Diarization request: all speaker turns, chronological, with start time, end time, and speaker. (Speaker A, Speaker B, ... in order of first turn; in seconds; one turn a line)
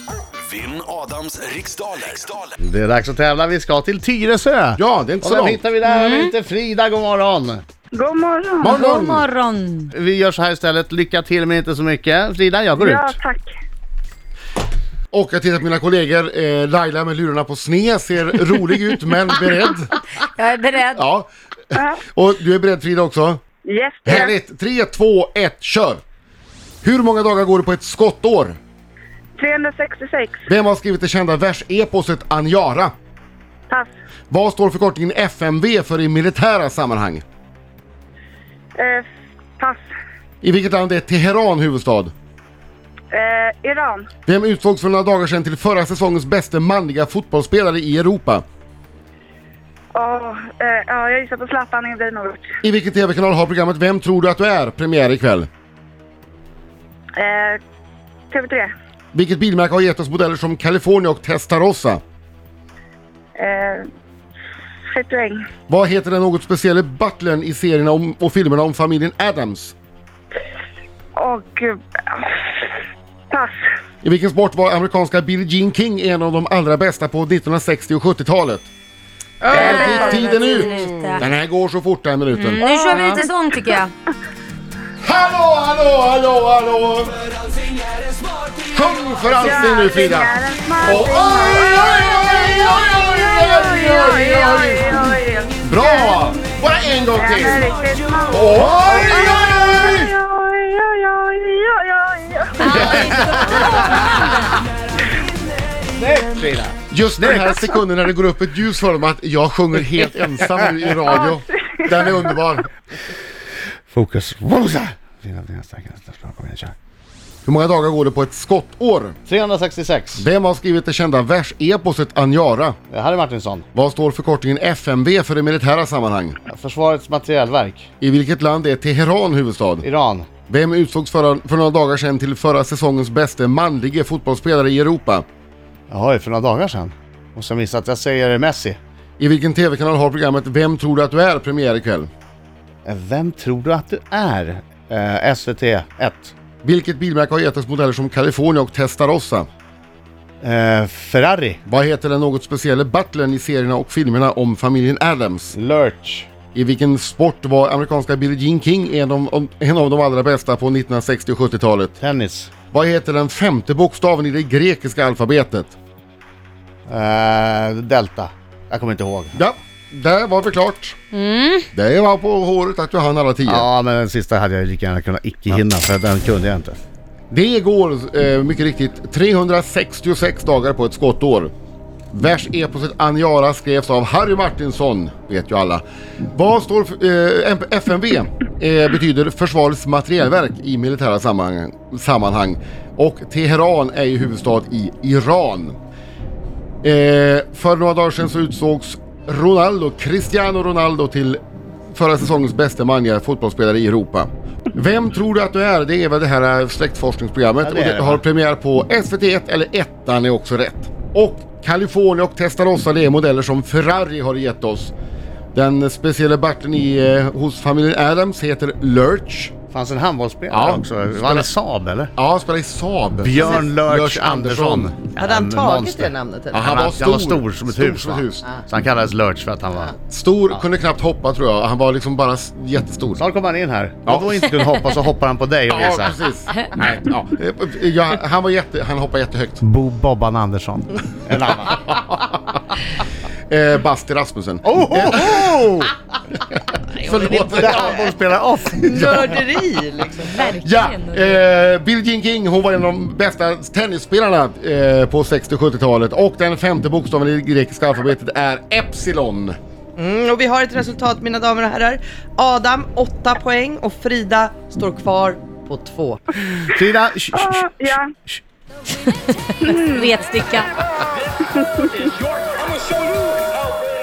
Speaker A: 0.5-2.5
Speaker B: 2.6-7.6
Speaker C: 4.8-5.7
Speaker D: 5.8-6.3
Speaker E: 7.9-8.8
Speaker C: 8.6-9.3
Speaker D: 8.6-9.9
Speaker B: 9.9-13.2
Speaker E: 12.8-13.5
Speaker C: 15.1-19.9
Speaker D: 20.4-21.0
Speaker C: 20.9-23.4
Speaker E: 21.7-22.0
Speaker E: 23.6-24.3
Speaker C: 24.1-26.0
Speaker C: 26.8-28.6
Speaker E: 29.4-30.4
Speaker C: 30.5-32.9
Speaker C: 34.3-37.2
Speaker E: 38.8-39.0
Speaker C: 40.4-42.1
Speaker E: 43.1-44.1
Speaker C: 44.3-48.4
Speaker E: 50.0-52.5
Speaker C: 52.6-55.5
Speaker E: 57.2-57.6
Speaker E: 58.3-58.7
Speaker C: 59.1-62.0
Speaker E: 63.4-63.9
Speaker E: 64.9-65.4
Speaker C: 65.7-69.7
Speaker E: 71.2-72.3
Speaker C: 74.0-78.7
Speaker F: 79.4-81.1
Speaker C: 79.5-82.6
Speaker D: 79.5-81.3
Speaker E: 79.5-80.4
Speaker D: 82.3-83.9
Speaker F: 82.6-83.2
Speaker C: 85.0-87.2
Speaker C: 88.7-90.3
Speaker E: 89.4-96.3
Speaker C: 90.8-97.6
Speaker E: 97.2-103.8
Speaker C: 98.3-100.1
Speaker B: 98.7-99.3
Speaker C: 102.7-103.8
Speaker D: 102.8-104.0
Speaker B: 105.9-107.6
Speaker C: 106.9-112.7
Speaker E: 111.1-112.1
Speaker B: 113.9-116.8
Speaker C: 117.5-119.2
Speaker B: 119.3-120.3
Speaker C: 120.2-122.8
Speaker B: 122.9-123.7
Speaker C: 123.7-126.4
Speaker B: 126.5-127.9
Speaker C: 128.0-129.9
Speaker B: 129.8-130.3
Speaker C: 130.5-135.2
Speaker B: 135.9-138.8
Speaker C: 139.2-142.1
Speaker B: 142.8-146.3
Speaker C: 146.6-149.5
Speaker B: 150.4-151.6
Speaker C: 151.7-155.6
Speaker B: 155.5-156.3
Speaker C: 156.5-162.0
Speaker B: 162.0-162.5
Speaker C: 162.7-165.7
Speaker B: 166.9-169.4
Speaker C: 169.3-171.0
Speaker D: 171.1-171.7
Speaker C: 171.7-173.7
Speaker B: 173.5-176.8
Speaker C: 177.3-181.5
Speaker C: 182.1-195.8
Speaker C: 196.8-201.4
Speaker C: 201.9-214.9
Speaker B: 207.6-208.2
Speaker C: 215.5-219.5
Speaker B: 219.7-222.1
Speaker C: 220.5-221.5
Speaker C: 222.2-224.9
Speaker B: 223.2-229.9
Speaker F: 225.2-226.6
Speaker C: 226.5-228.5
Speaker C: 230.1-233.2
Speaker B: 233.2-236.2
Speaker C: 234.1-234.8
Speaker C: 235.7-239.6
Speaker B: 239.6-241.9
Speaker C: 241.7-241.9
Speaker C: 243.5-245.8
Speaker B: 244.7-245.9
Speaker C: 246.9-248.1
Speaker F: 247.0-248.0
Speaker B: 247.4-249.2
Speaker C: 248.8-249.4
Speaker F: 248.8-250.5
Speaker D: 250.3-251.4
Speaker C: 250.3-259.6
Speaker F: 260.0-266.2
Speaker B: 266.7-268.4
Speaker E: 267.3-268.1
Speaker D: 269.1-270.7
Speaker E: 269.6-270.1
Speaker A: 272.1-273.8